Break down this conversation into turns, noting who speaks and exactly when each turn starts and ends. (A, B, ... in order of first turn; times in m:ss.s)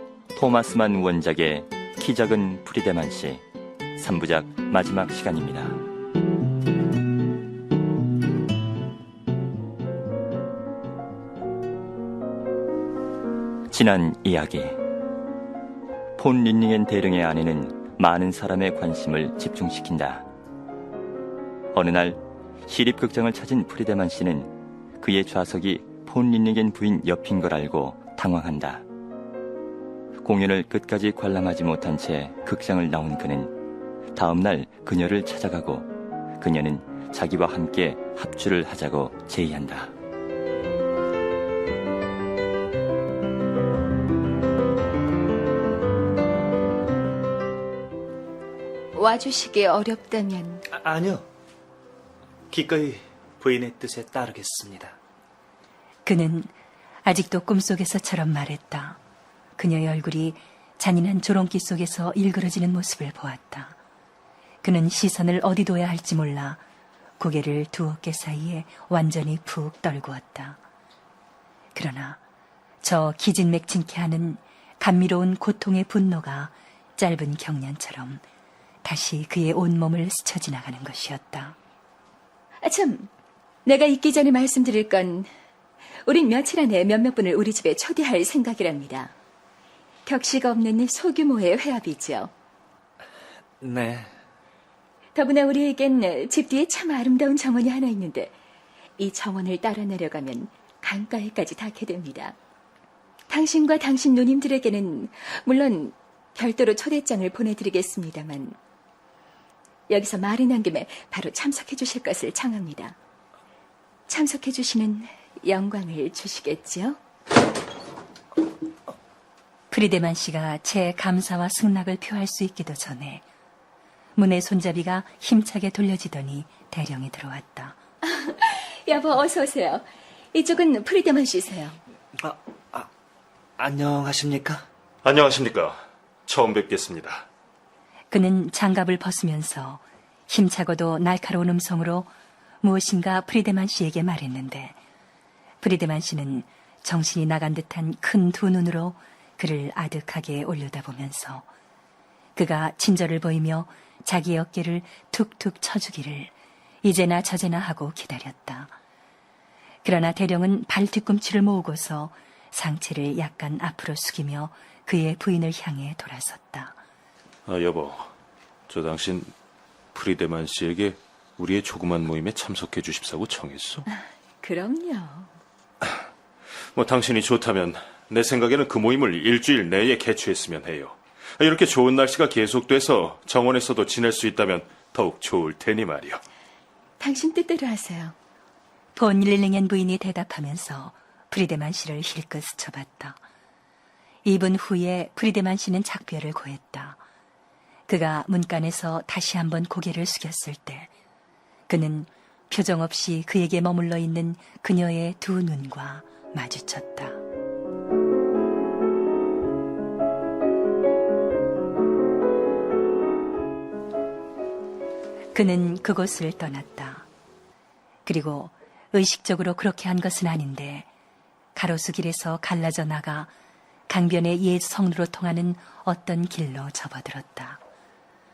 0:00.3-0:03.4 A
0:04.0-0:05.8 A
0:13.7-0:14.8 A
0:16.2-0:20.3 A
0:21.7-0:28.8 A
0:30.2-0:33.5 A
0:34.2-0:35.9 A
0:36.4-0:39.9 A
0:48.9-0:50.6 B
0:50.7-0:51.3 C
0:52.5-0:55.0 C
0:56.0-0:56.5 D
0:57.0-0:59.0 D
0:59.6-1:03.8 D
1:04.6-1:06.6 D
1:07.2-1:10.6 D
1:11.7-1:12.2 D
1:12.8-1:18.2 D
1:18.8-1:21.6 D
1:22.6-1:23.1 B
1:23.6-1:25.3 B
1:26.1-1:29.1 B
1:30.1-1:32.3 B
1:33.6-1:34.1 C
1:35.2-1:38.3 B
1:39.0-1:42.4 B
1:43.3-1:48.6 B
1:49.9-1:53.0 B
1:54.1-1:57.0 B
1:59.7-2:03.2 D
2:04.2-2:07.8 D
2:08.0-2:11.8 B
2:12.2-2:12.9 C
2:13.6-2:14.7 C
2:15.0-2:17.3 E
2:18.1-2:22.1 D
2:22.6-2:24.8 D
2:25.6-2:31.4 D
2:32.4-2:36.3 D
2:36.8-2:38.7 D
2:39.8-2:46.8 D
2:47.5-2:48.1 E
2:48.7-2:49.3 E
2:49.9-2:53.8 E
2:53.9-2:55.3 B
2:56.8-3:06.2 E
3:07.0-3:08.1 B
3:09.0-3:13.2 D
3:14.2-3:17.0 D
3:17.9-3:20.9 D
3:21.7-3:27.2 D
3:35.3-3:37.1 D
3:38.0-3:40.9 D
3:41.6-3:43.3 D
3:43.9-3:47.6 D